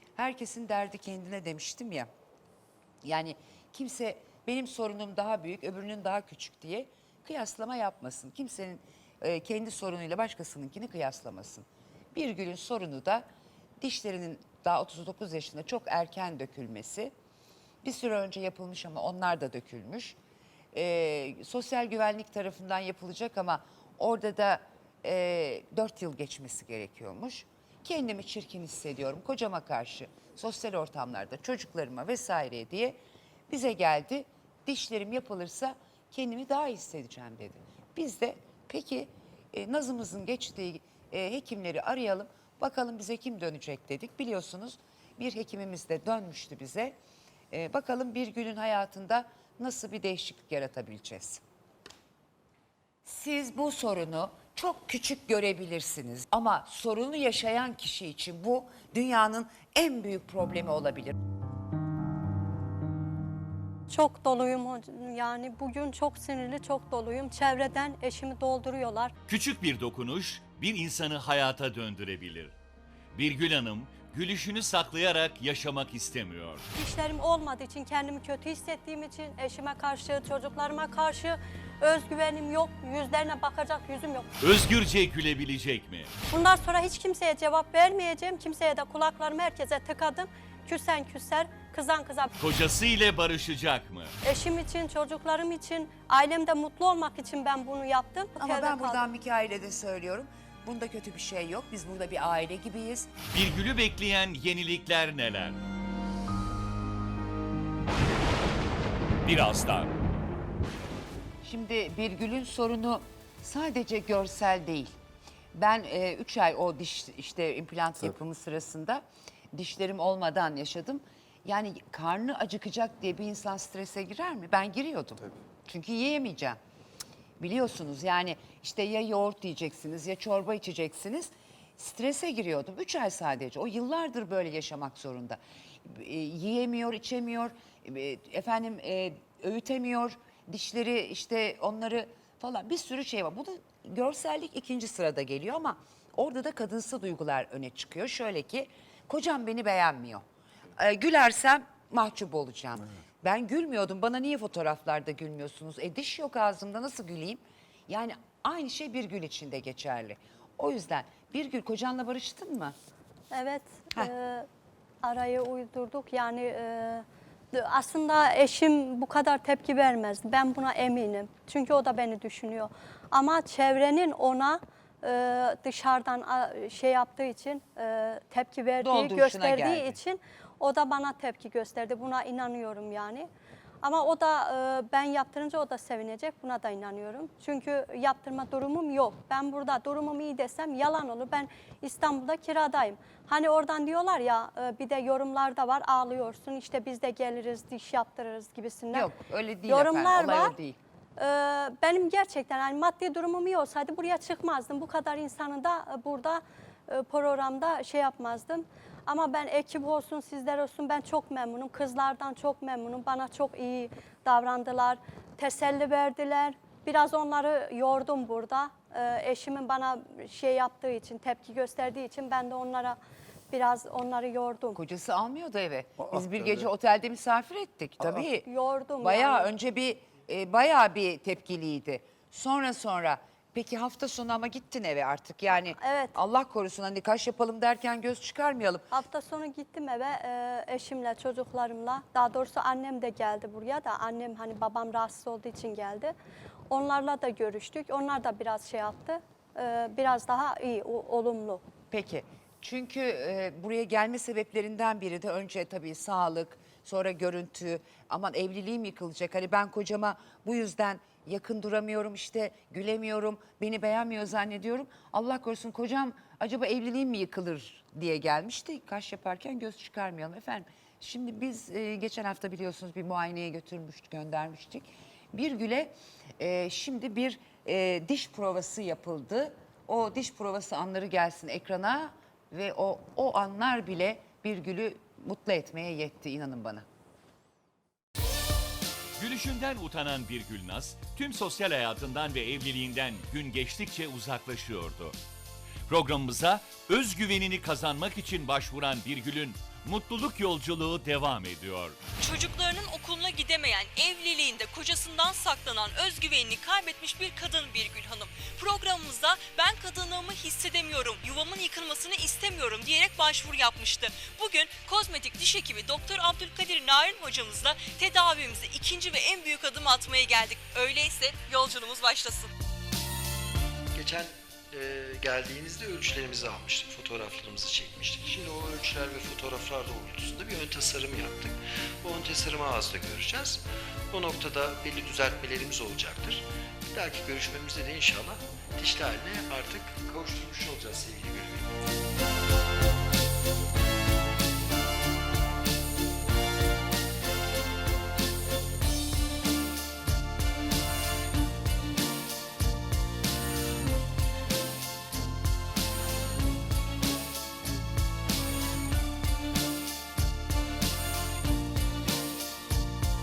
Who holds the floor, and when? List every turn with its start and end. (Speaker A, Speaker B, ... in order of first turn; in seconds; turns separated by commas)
Speaker A: 0.2-2.1, Speaker A: 3.0-13.2, Speaker A: 13.8-17.1, Speaker A: 17.8-20.2, Speaker A: 20.7-33.0, Speaker A: 33.5-47.0, Speaker A: 47.5-51.4, Speaker A: 53.0-61.2, Speaker B: 63.9-69.1, Speaker C: 69.3-72.5, Speaker C: 73.1-76.6, Speaker B: 76.8-84.3, Speaker C: 84.4-86.1, Speaker B: 86.3-92.3, Speaker C: 92.4-94.1, Speaker B: 94.2-99.0, Speaker A: 98.4-103.1, Speaker C: 103.3-105.6, Speaker C: 109.2-109.9, Speaker A: 111.4-115.0, Speaker A: 115.5-126.6, Speaker A: 127.4-150.2, Speaker A: 150.8-162.8, Speaker B: 163.3-164.5, Speaker B: 165.0-183.3, Speaker A: 178.8-180.0, Speaker B: 183.8-199.1, Speaker A: 198.9-200.8, Speaker B: 199.7-200.6, Speaker B: 201.2-223.0, Speaker B: 223.5-224.8, Speaker A: 224.7-228.5, Speaker B: 228.4-229.5, Speaker A: 229.0-238.9, Speaker B: 235.7-236.2, Speaker B: 238.9-246.1, Speaker B: 246.7-251.6, Speaker A: 251.9-286.9, Speaker C: 289.2-295.2, Speaker C: 295.9-302.0, Speaker D: 302.2-322.5, Speaker E: 323.9-341.7